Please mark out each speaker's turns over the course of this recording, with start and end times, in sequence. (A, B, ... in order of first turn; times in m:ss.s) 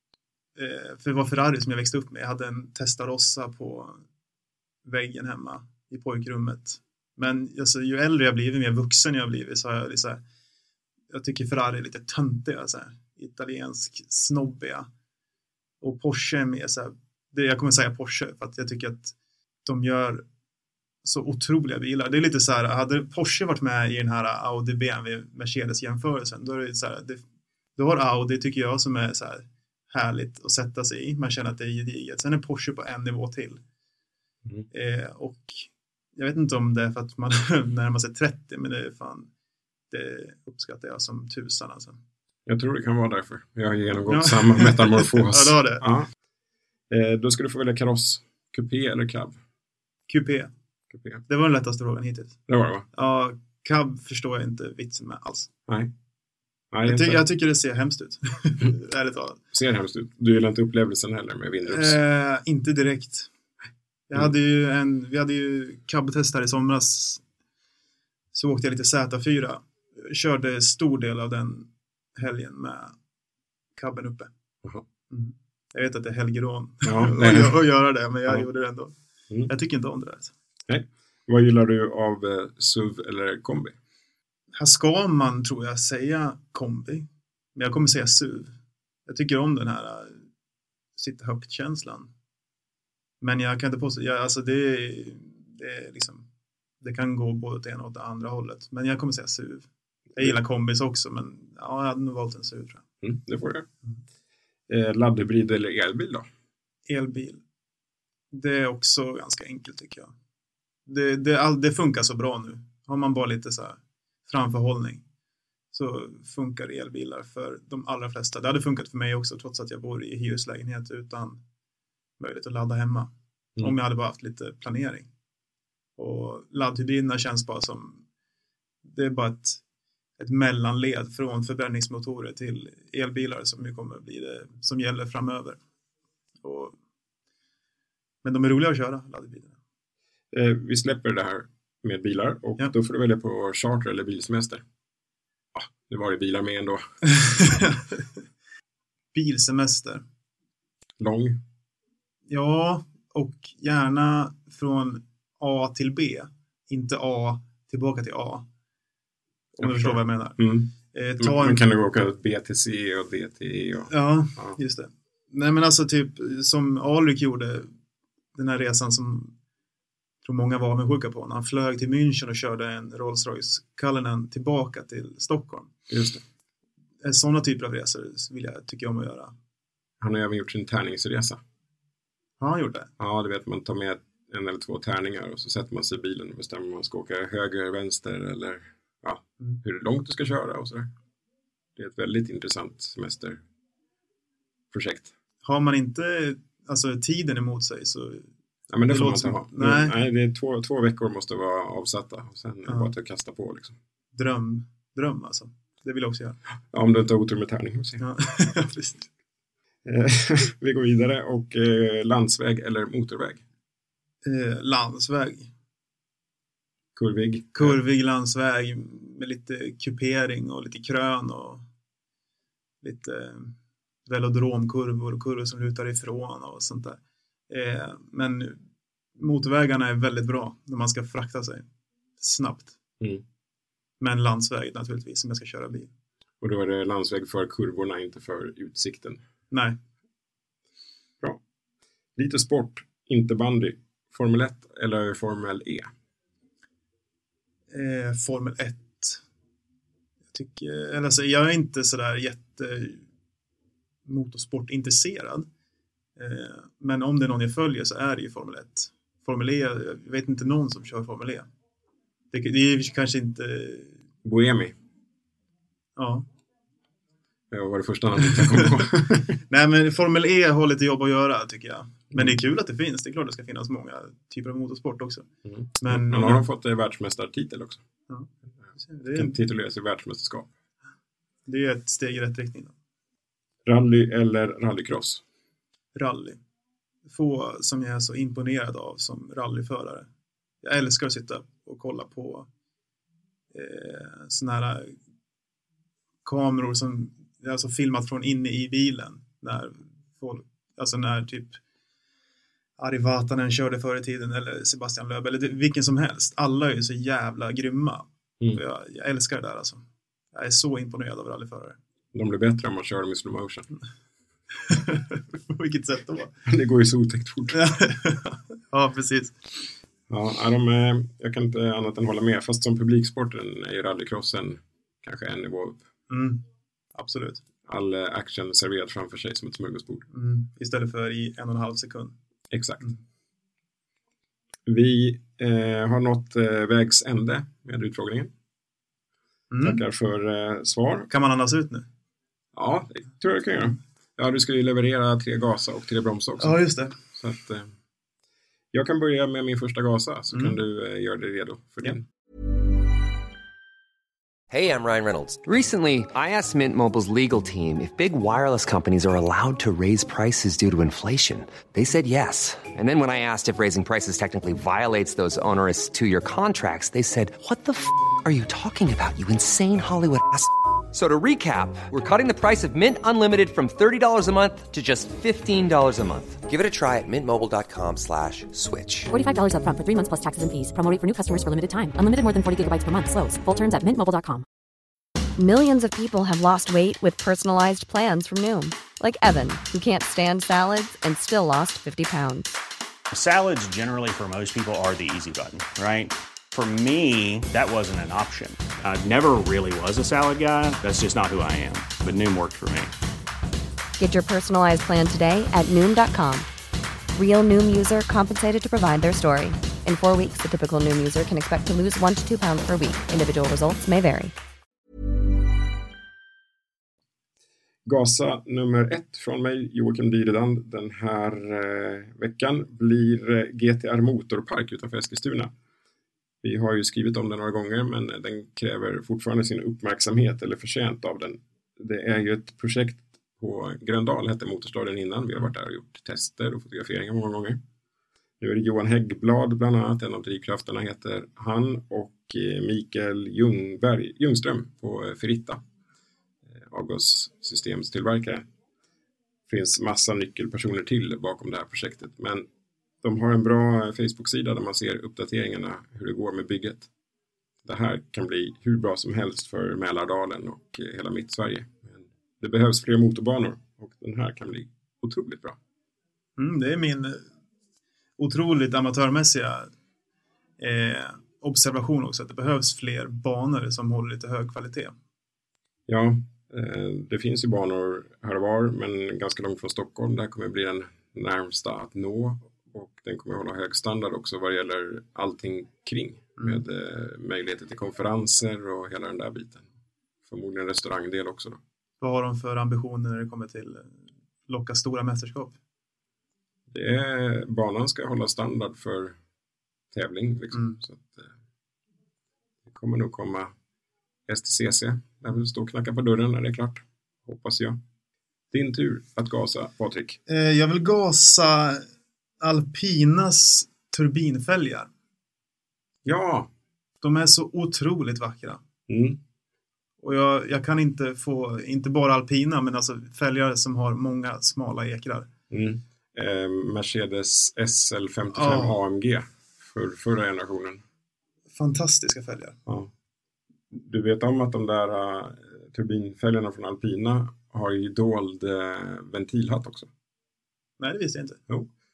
0:00.6-0:04.0 A
0:04.8-0:10.2 A
0:11.1-0:14.9 A
0:15.8-0:19.1 A
0:19.6-0:20.2 A
0:21.0-0:27.2 A
0:27.8-0:33.6 A
0:34.7-0:39.3 A
0:39.9-0:42.0 A
0:42.4-0:46.1 B
0:44.1-0:45.8 A
0:46.9-0:49.4 B
0:50.1-0:50.5 A
0:50.9-0:51.2 B
0:51.3-0:52.4 A
0:52.5-0:52.9 B
0:52.9-0:55.5 A
0:55.7-0:55.9 B
0:56.7-0:57.2 B
0:56.8-0:59.4 A
0:59.5-1:02.0 B
1:01.6-1:03.3 A
1:04.1-1:07.2 A
1:08.3-1:12.9 A
1:13.8-1:14.3 A
1:15.1-1:18.9 A
1:16.8-1:17.6 B
1:19.4-1:20.3 A
1:20.7-1:23.8 B
1:24.5-1:28.5 A
1:29.1-1:30.2 A
1:31.0-1:32.1 A
1:33.2-1:36.2 A
1:36.8-1:42.8 A
1:43.0-1:43.7 B
1:44.7-1:46.3 B
1:46.9-1:47.4 A
1:48.3-1:50.1 A
1:50.9-1:55.0 A
1:55.7-2:01.4 A
2:02.2-2:03.1 A
2:03.6-2:05.1 A
2:06.0-2:08.0 A
2:08.8-2:09.6 A
2:10.2-2:15.6 A
2:16.4-2:16.7 A
2:18.2-2:19.5 A
2:20.3-2:24.6 B
2:25.5-2:26.8 B
2:27.1-2:28.1 A
2:29.1-2:30.0 A
2:31.0-2:31.4 B
2:32.3-2:38.4 A
2:39.6-2:40.4 A
2:39.6-2:44.6 B
2:40.9-2:41.6 A
2:43.9-2:47.7 A
2:48.3-2:49.3 A
2:50.2-2:55.7 A
2:55.9-2:56.2 B
2:57.0-2:59.3 A
3:00.0-3:01.4 B
3:02.4-3:02.9 A
3:03.0-3:10.9 B
3:11.8-3:13.4 B
3:14.7-3:15.1 B
3:15.4-3:18.3 A
3:18.7-3:23.8 B
3:18.9-3:20.0 A
3:22.6-3:22.9 A
3:24.1-3:26.4 A
3:26.7-3:28.0 B
3:28.0-3:29.1 A
3:29.8-3:33.4 B
3:34.2-3:35.5 A
3:37.0-3:37.8 B
3:37.5-3:41.6 A
3:42.8-3:43.5 A
3:44.0-3:47.0 A
3:47.5-3:48.6 A
3:49.2-3:51.6 A
3:52.2-3:52.7 A
3:54.0-3:55.9 A
3:56.4-3:59.2 B
3:59.5-3:59.8 A
4:02.2-4:05.9 B
4:07.7-4:09.2 A
4:10.3-4:13.0 A
4:14.0-4:15.5 A
4:16.2-4:21.5 A
4:22.3-4:24.0 A
4:24.2-4:24.8 B
4:26.0-4:26.2 A
4:27.5-4:29.3 B
4:28.3-4:28.8 A
4:29.5-4:35.2 A
4:35.4-4:37.8 B
4:35.8-4:36.4 A
4:38.1-4:39.4 A
4:39.1-4:40.5 B
4:41.4-4:42.7 A
4:43.6-4:45.2 B
4:45.9-4:46.4 A
4:47.1-4:50.1 A
4:50.6-4:52.4 A
4:53.5-4:55.0 A
4:56.2-5:01.6 A
5:02.8-5:09.8 A
5:10.3-5:11.8 A
5:12.1-5:13.7 B
5:14.6-5:16.3 A
5:16.4-5:17.6 B
5:17.5-5:19.4 A
5:20.1-5:25.8 B
5:26.1-5:26.4 A
5:26.9-5:27.4 A
5:27.6-5:30.0 B
5:30.1-5:32.1 A
5:32.5-5:32.9 B
5:34.7-5:38.3 B
5:39.5-5:39.8 A
5:39.6-5:41.1 B
5:41.1-5:41.8 A
5:42.5-5:47.7 B
5:46.4-5:46.9 A
5:48.7-5:52.0 B
5:50.3-5:50.6 A
5:54.5-5:55.4 C
5:55.4-6:16.4 D
6:16.5-6:19.1 C
6:19.1-6:24.4 E
6:25.4-6:32.5 F
6:33.1-6:42.9 G
6:44.0-6:46.5 F
6:47.1-6:54.3 F
6:57.8-7:05.5 B
7:06.4-7:17.6 B
7:18.4-7:25.6 B
7:26.5-7:28.5 B
7:29.5-7:32.5 B
7:33.0-7:36.9 B
7:37.6-7:45.6 B
7:46.4-7:47.2 A
7:48.2-7:49.7 A
7:50.6-7:54.9 A
7:55.9-8:09.6 B
8:06.4-8:06.6 A
8:10.2-8:11.6 B
8:12.0-8:15.5 A
8:16.7-8:19.2 B
8:19.9-8:21.3 B
8:22.6-8:23.5 B
8:24.3-8:27.8 B
8:28.5-8:30.2 B
8:30.3-8:31.8 A
8:32.4-8:34.9 A
8:36.0-8:36.5 B
8:37.0-8:38.6 A
8:38.9-8:39.2 B
8:40.0-8:45.3 A
8:45.5-8:50.8 B
8:48.3-8:48.8 A
8:51.5-8:52.6 A
8:52.6-8:52.9 B
8:53.7-8:59.9 B
9:00.8-9:01.4 A